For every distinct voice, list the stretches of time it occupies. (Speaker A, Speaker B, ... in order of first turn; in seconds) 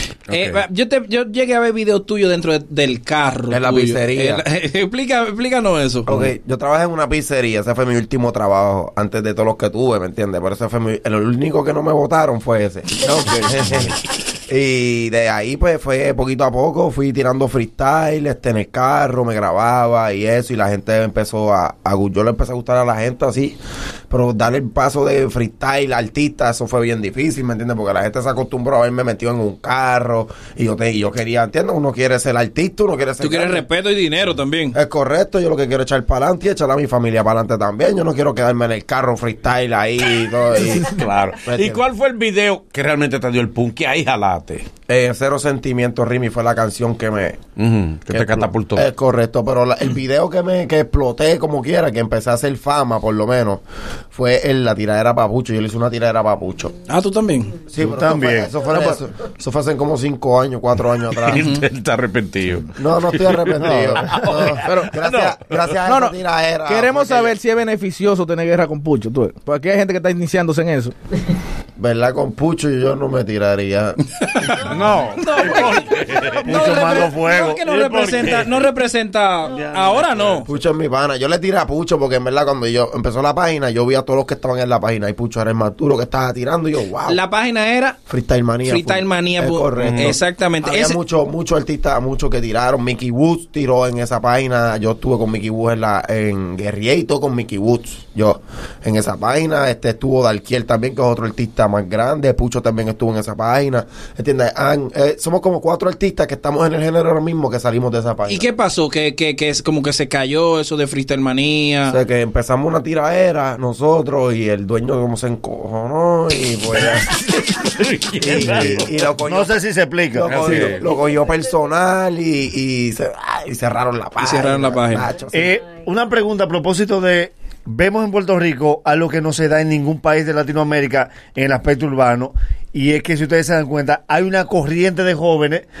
Speaker A: 0.3-0.6, 40.5-44.6, 47.5-48.9, 61.2-65.7, 74.5-76.8, 77.7-78.6, 79.5-80.5, 89.8-90.2, 116.8-118.9, 120.3-120.9
Speaker B: 0.3-6.1, 33.2-34.8, 56.9-57.5, 61.3-61.6, 74.4-80.5, 87.0-88.0, 88.6-91.0, 108.3-112.0, 124.2-125.1
Speaker C: 3.5-4.4, 6.1-23.6, 24.1-33.6, 34.7-40.9, 41.4-41.8, 44.9-47.4, 48.1-53.6, 54.1-56.7, 57.7-61.5, 62.8-67.3, 71.8-74.0, 80.5-87.2, 88.1-108.5, 111.9-117.1, 118.2-119.6, 120.1-125.6
Speaker D: 57.8-58.5, 63.6-64.0, 76.4-78.2, 118.4-120.4, 125.3-135.6
Speaker E: 64.6-64.9, 65.8-70.9